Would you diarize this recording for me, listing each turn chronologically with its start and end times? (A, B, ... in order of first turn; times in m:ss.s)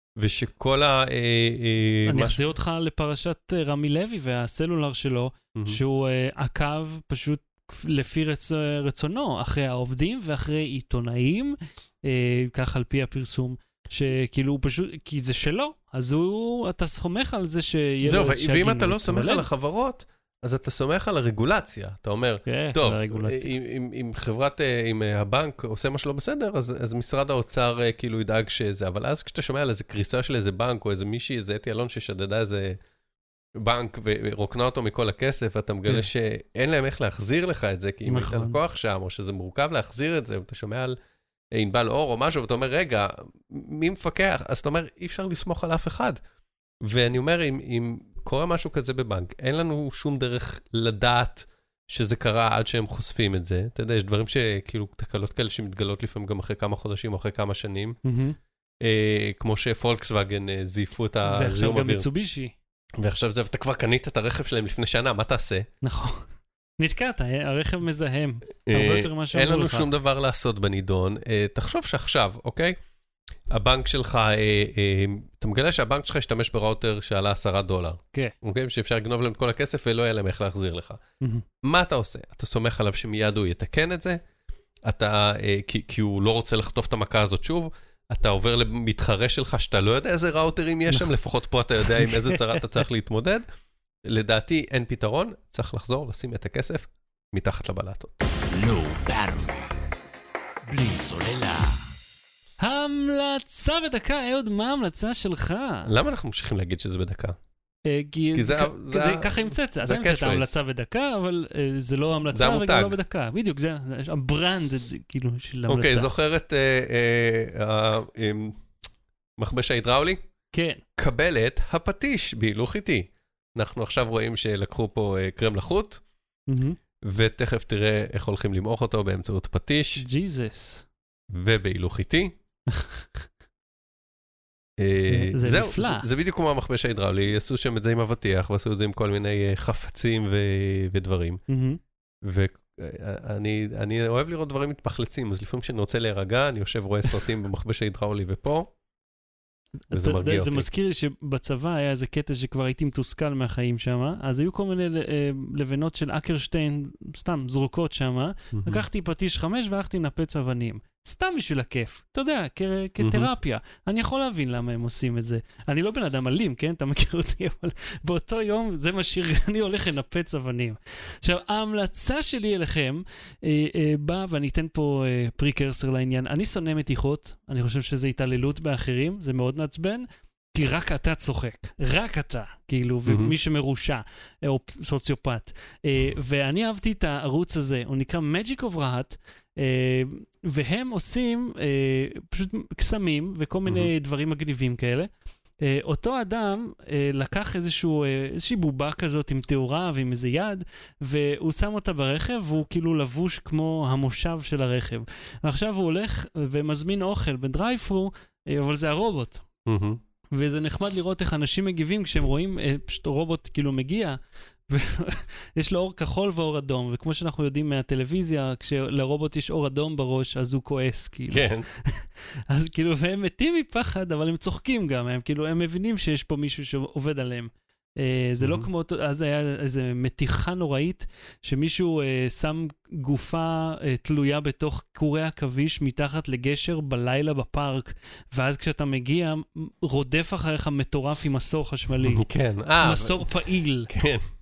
0:00.2-0:02.4 A
0:02.1-0:19.5 B
0:05.6-0:05.8 A
0:18.0-0:32.8 A
0:22.5-0:23.5 B
0:33.6-0:41.0 A
0:38.0-0:38.6 B
0:41.5-0:46.2 A
0:46.8-0:58.0 A
0:58.0-0:58.4 B
0:58.8-1:02.1 A
1:01.3-1:02.5 B
1:03.0-1:05.7 A
1:05.8-1:09.9 B
1:08.7-1:12.8 A
1:13.5-1:21.0 A
1:21.6-1:24.2 A
1:24.9-1:33.4 A
1:31.9-1:32.8 B
1:34.0-1:38.2 A
1:38.5-1:39.8 C
1:40.6-1:41.9 C
1:42.6-1:45.9 B
1:45.8-1:47.4 A
1:47.9-1:56.1 B
1:48.3-1:50.5 A
1:52.3-1:53.0 A
1:55.7-1:58.7 A
1:59.4-2:00.2 A
2:00.5-2:00.8 B
2:01.0-2:06.0 A
2:06.5-2:06.8 B
2:07.0-2:10.0 A
2:10.0-2:10.9 B
2:11.3-2:12.3 A
2:12.7-2:13.1 B
2:14.8-2:21.4 A
2:15.1-2:16.1 B
2:21.5-2:21.8 B
2:22.2-2:28.7 A
2:29.9-3:15.1 B
2:29.9-2:30.7 A
2:38.5-2:38.8 A
2:43.0-2:43.3 A
3:03.1-3:03.4 A
3:13.7-3:13.9 A
3:15.6-3:29.4 B
3:29.7-3:30.0 A
3:30.3-4:02.2 B
3:41.3-3:41.7 A
3:48.4-3:48.7 A
4:02.0-4:04.2 A
4:02.8-4:03.9 B